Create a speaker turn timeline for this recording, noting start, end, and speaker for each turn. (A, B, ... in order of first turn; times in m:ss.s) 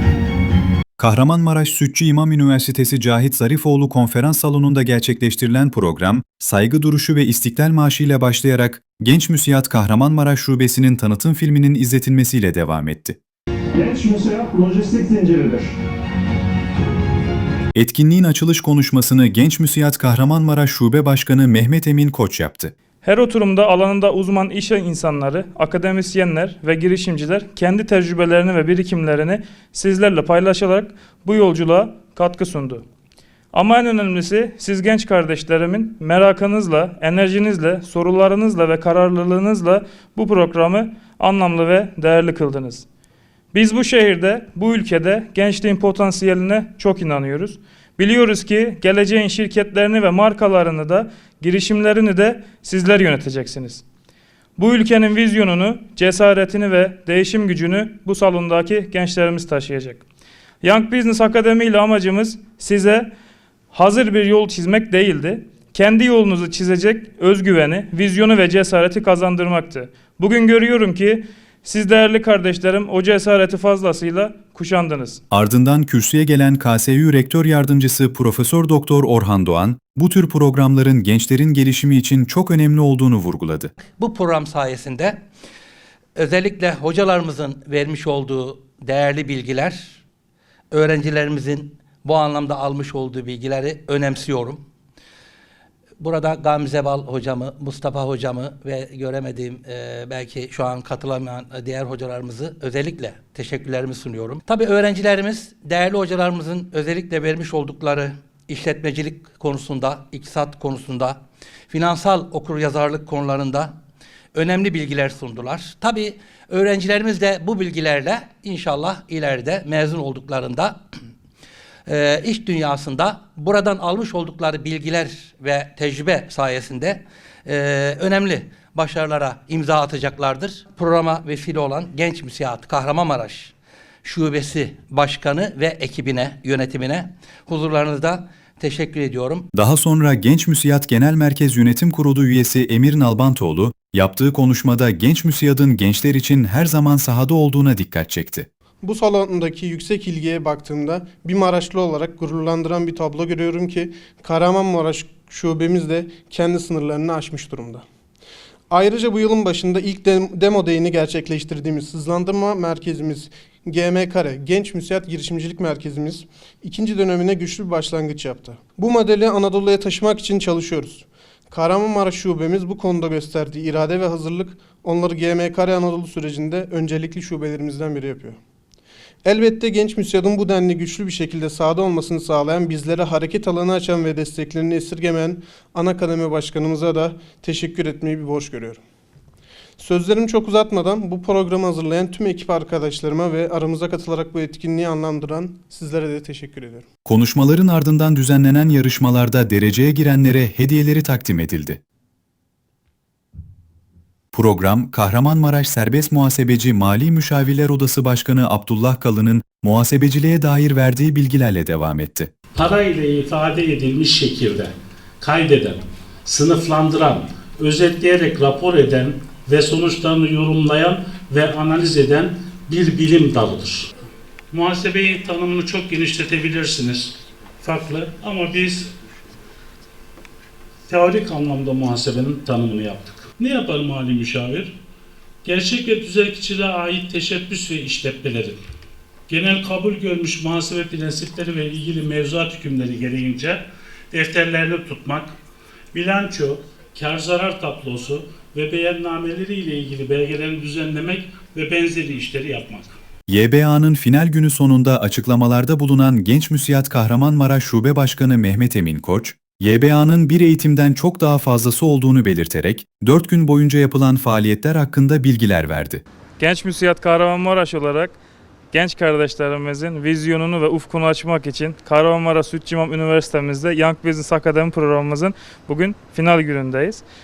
0:01.0-0:13.2 A
0:13.8-0:15.8 B
0:17.7-0:22.7 A
0:23.0-0:32.8 C
0:33.5-0:42.8 C
0:43.5-0:53.8 C
0:54.6-1:00.0 C
1:00.6-1:03.1 C
1:03.7-1:15.2 C
1:15.3-1:23.7 A
1:23.9-1:25.2 D
1:26.2-1:30.0 D
1:30.7-1:34.6 D
1:36.0-1:53.8 D
1:54.3-2:00.8 D
2:01.8-2:13.5 D
2:14.0-2:19.5 D
2:19.5-2:28.5 A
2:28.8-2:37.8 E
2:38.7-2:58.4 E
2:59.2-3:08.8 E
3:09.8-3:16.8 E
3:17.0-3:21.8 A
3:24.3-3:32.3 A
3:32.5-3:43.9 F
3:44.5-3:48.9 F
3:50.9-3:54.8 F
3:55.4-3:58.6 F
3:59.3-4:05.3 F
4:05.9-4:12.9 F
4:13.3-4:26.0 A
4:26.4-4:28.2 C
4:28.7-4:37.0 C